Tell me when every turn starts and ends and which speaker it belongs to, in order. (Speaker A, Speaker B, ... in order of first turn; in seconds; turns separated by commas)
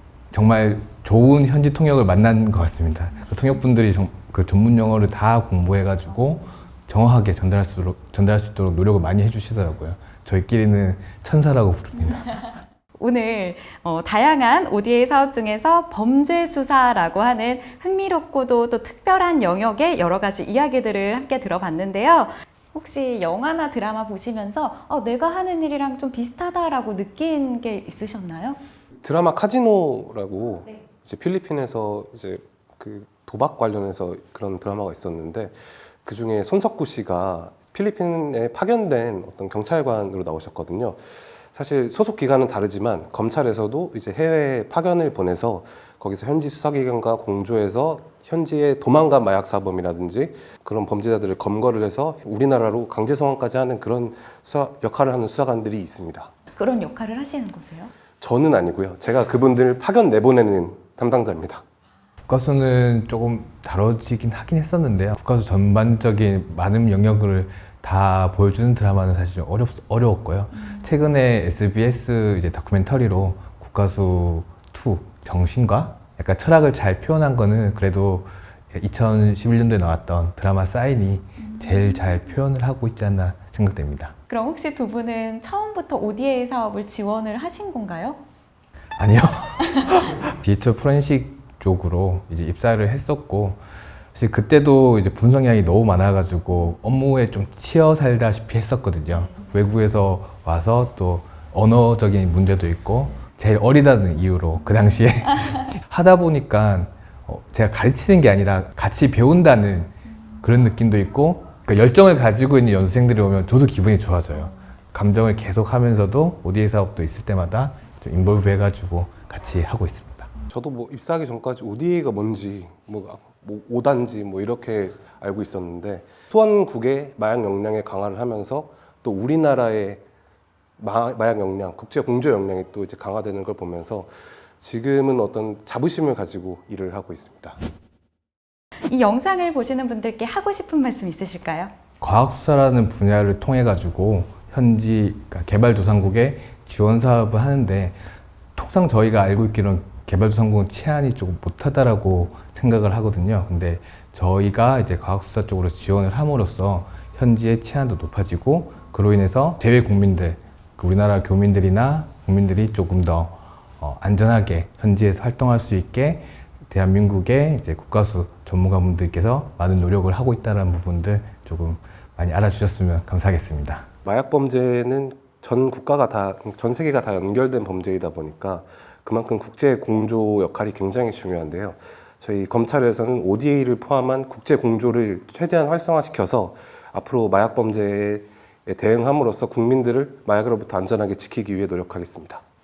Speaker A: 0.3-12.4, Speaker B: 13.0-28.6, Speaker C: 29.0-41.0, Speaker C: 41.5-56.3, Speaker B: 56.5-57.9, Speaker C: 58.2-61.6, Speaker A: 62.3-84.1, Speaker B: 84.3-88.2, Speaker A: 89.0-93.6, Speaker A: 94.1-120.3, Speaker C: 120.5-130.0, Speaker C: 130.8-134.1, Speaker C: 134.6-137.6, Speaker B: 138.9-141.7, Speaker A: 142.0-148.0, Speaker A: 148.5-173.8, Speaker C: 174.0-192.4